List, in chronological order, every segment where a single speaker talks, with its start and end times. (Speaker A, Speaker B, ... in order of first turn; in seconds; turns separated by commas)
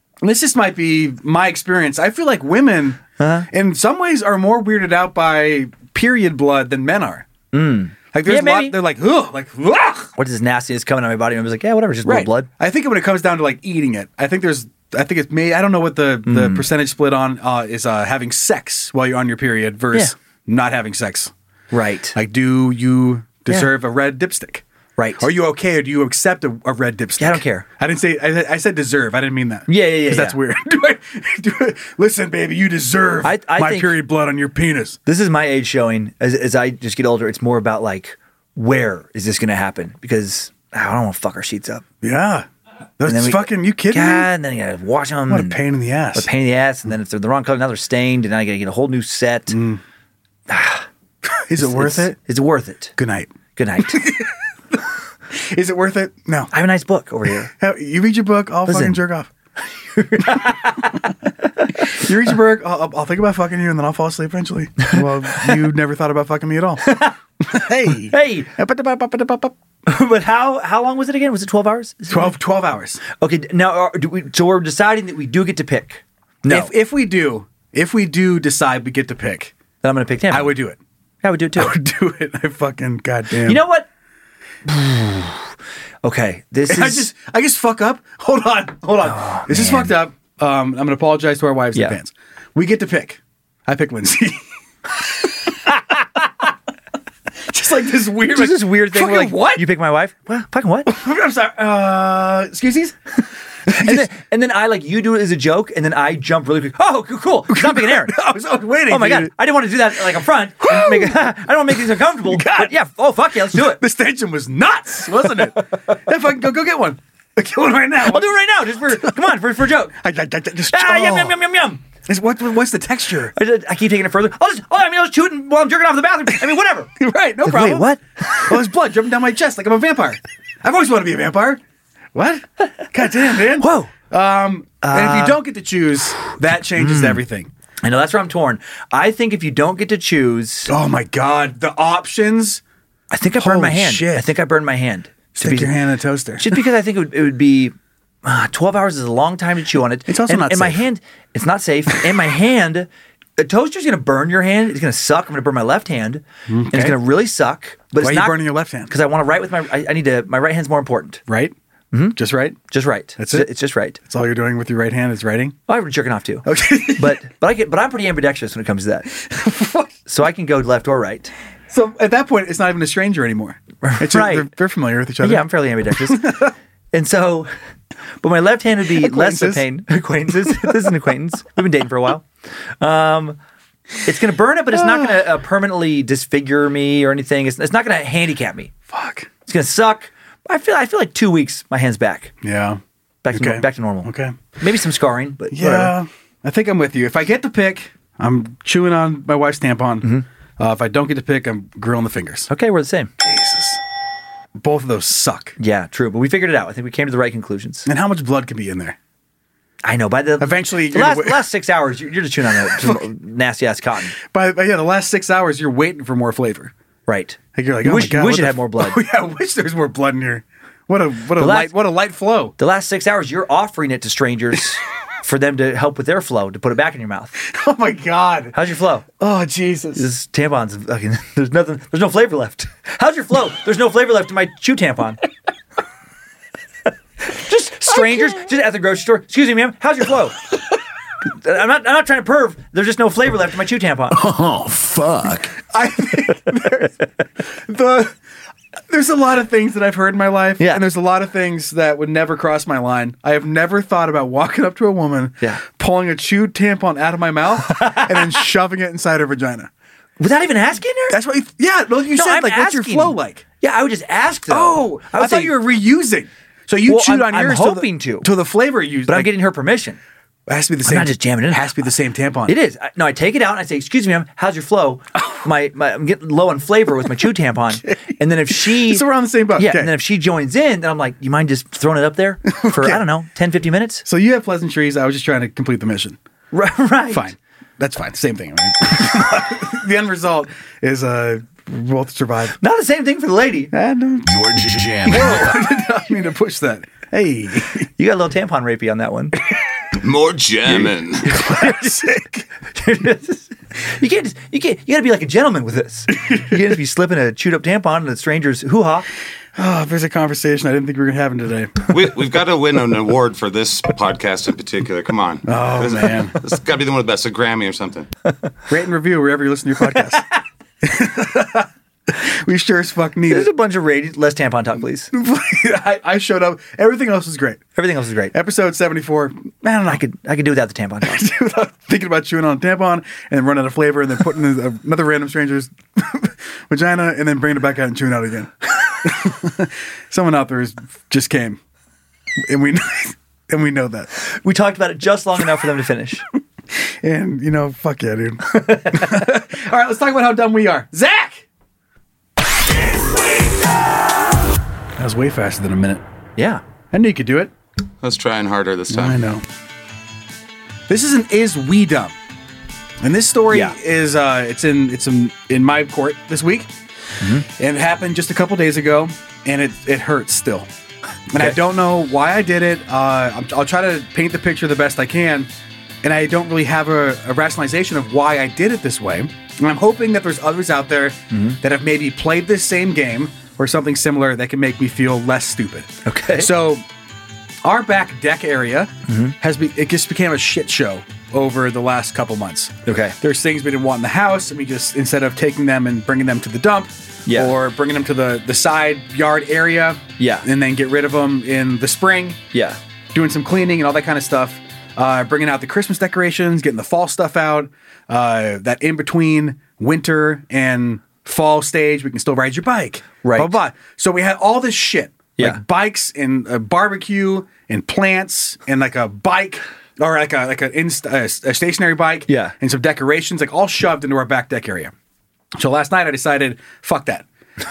Speaker A: 0.2-7.3, Speaker B: 3.2-3.5, Speaker B: 7.5-8.8, Speaker A: 8.1-10.1, Speaker B: 10.2-12.5, Speaker A: 12.0-21.3, Speaker B: 16.2-16.7, Speaker B: 21.7-22.1, Speaker A: 22.1-24.6, Speaker B: 25.0-25.3, Speaker A: 25.2-35.0, Speaker B: 27.2-27.6, Speaker B: 29.7-30.4, Speaker B: 33.2-34.0, Speaker B: 35.0-41.8, Speaker A: 42.0-42.5, Speaker A: 43.0-44.3, Speaker B: 43.0-45.6, Speaker A: 45.3-46.3, Speaker B: 46.1-49.6, Speaker A: 49.5-49.8, Speaker B: 50.5-50.9, Speaker A: 51.5-52.1, Speaker B: 51.6-52.9, Speaker A: 53.0-53.3, Speaker B: 53.5-54.1, Speaker A: 53.9-54.8, Speaker A: 55.3-56.5, Speaker B: 56.5-57.5, Speaker A: 57.6-59.3, Speaker B: 58.7-59.0, Speaker B: 59.9-62.1, Speaker A: 61.8-69.5, Speaker B: 64.8-65.5, Speaker B: 66.8-67.2, Speaker B: 67.9-68.5, Speaker B: 69.8-72.3, Speaker A: 72.1-73.0, Speaker B: 73.1-76.7, Speaker A: 76.5-79.5, Speaker B: 79.8-80.5, Speaker A: 80.3-80.8, Speaker B: 81.2-81.7, Speaker A: 81.5-83.6, Speaker B: 83.4-83.9, Speaker B: 84.7-85.4, Speaker B: 86.0-87.1, Speaker A: 86.7-94.5, Speaker B: 89.0-89.9, Speaker A: 97.4-99.7, Speaker B: 98.3-100.9, Speaker A: 100.8-103.0, Speaker A: 103.7-104.1, Speaker B: 103.7-108.2, Speaker A: 107.5-109.3, Speaker B: 108.9-113.8, Speaker A: 110.6-111.2, Speaker A: 111.7-112.7, Speaker A: 113.4-118.3, Speaker B: 118.0-119.9, Speaker A: 118.9-119.2, Speaker A: 119.9-121.4, Speaker B: 120.7-121.8, Speaker A: 122.0-123.3, Speaker B: 123.3-126.9, Speaker A: 127.0-131.6, Speaker B: 127.4-128.6, Speaker A: 132.1-137.5, Speaker B: 133.6-133.9, Speaker B: 134.8-135.4, Speaker B: 136.7-137.2, Speaker B: 137.8-140.7, Speaker A: 140.7-142.6, Speaker B: 143.1-145.7, Speaker A: 143.4-144.3, Speaker A: 145.3-146.6, Speaker B: 146.4-147.7, Speaker B: 148.2-161.2, Speaker A: 150.1-150.8, Speaker A: 156.5-157.0, Speaker A: 158.0-158.9, Speaker A: 161.3-161.5, Speaker B: 161.9-162.2, Speaker A: 162.1-162.6, Speaker B: 162.7-164.0, Speaker A: 163.2-165.6, Speaker B: 165.7-169.1, Speaker A: 166.4-167.2, Speaker A: 169.2-169.9, Speaker B: 170.1-171.3, Speaker A: 171.7-176.5, Speaker B: 173.8-174.5, Speaker B: 175.2-177.5, Speaker B: 178.2-182.2, Speaker A: 178.9-179.7, Speaker A: 180.4-180.9, Speaker B: 182.8-183.4, Speaker B: 184.0-188.7, Speaker A: 184.7-185.1, Speaker A: 188.9-189.3, Speaker B: 189.4-192.3, Speaker A: 192.4-192.8, Speaker B: 193.2-195.9, Speaker A: 193.3-194.4, Speaker A: 195.5-202.5, Speaker B: 202.5-203.1, Speaker A: 203.2-203.8, Speaker A: 204.6-205.6, Speaker B: 205.6-207.9, Speaker A: 207.8-209.0, Speaker B: 209.8-214.1, Speaker A: 210.4-211.4, Speaker A: 212.5-213.1, Speaker A: 214.2-216.7, Speaker B: 217.1-219.0, Speaker A: 217.5-222.5, Speaker B: 221.4-221.7, Speaker B: 222.6-227.3, Speaker A: 227.4-228.6, Speaker B: 228.5-229.1, Speaker A: 229.2-230.1, Speaker B: 229.9-235.2, Speaker B: 237.2-240.4, Speaker A: 237.9-238.4, Speaker B: 241.4-244.2, Speaker C: 244.1-245.6, Speaker A: 245.7-246.9, Speaker A: 247.5-248.1, Speaker A: 248.9-259.7, Speaker B: 257.7-258.3, Speaker B: 260.2-261.2, Speaker A: 261.1-263.4, Speaker B: 262.1-265.6, Speaker A: 264.5-269.3, Speaker B: 266.9-268.3, Speaker B: 269.1-270.0, Speaker A: 270.5-272.6, Speaker B: 270.8-271.8, Speaker B: 272.4-284.0, Speaker A: 278.5-279.9, Speaker A: 282.5-283.1, Speaker A: 284.0-286.2, Speaker B: 286.5-287.3, Speaker A: 287.1-292.6, Speaker B: 292.6-293.7, Speaker A: 293.7-294.4, Speaker C: 294.2-295.7, Speaker A: 295.0-297.9, Speaker B: 298.0-299.4, Speaker D: 300.0-301.4, Speaker A: 301.2-302.5, Speaker B: 301.3-302.1, Speaker B: 302.7-309.1, Speaker A: 309.6-311.9, Speaker D: 311.9-318.1, Speaker A: 315.4-316.4, Speaker A: 318.7-320.2, Speaker A: 320.8-323.5, Speaker B: 323.3-325.1, Speaker A: 325.1-327.6, Speaker B: 327.8-328.3, Speaker A: 328.3-330.0, Speaker B: 329.9-331.3, Speaker A: 331.0-341.6, Speaker A: 342.4-344.1, Speaker B: 344.2-346.2, Speaker A: 346.8-351.4, Speaker B: 348.5-349.2, Speaker A: 355.0-356.0, Speaker B: 356.4-356.6, Speaker A: 356.9-357.5, Speaker D: 358.0-359.2, Speaker A: 358.9-359.4, Speaker A: 360.9-362.1, Speaker A: 363.0-366.7, Speaker B: 363.5-363.8, Speaker B: 367.2-367.4, Speaker A: 367.4-370.7, Speaker A: 371.3-375.5, Speaker A: 376.0-386.8, Speaker B: 381.3-381.6, Speaker B: 386.0-386.5, Speaker A: 387.6-402.4, Speaker B: 389.1-389.3, Speaker B: 392.9-393.1, Speaker B: 397.3-397.5, Speaker B: 400.2-400.5, Speaker B: 402.5-402.8, Speaker A: 403.1-424.9, Speaker B: 413.2-413.6, Speaker B: 422.3-422.5, Speaker A: 425.5-427.2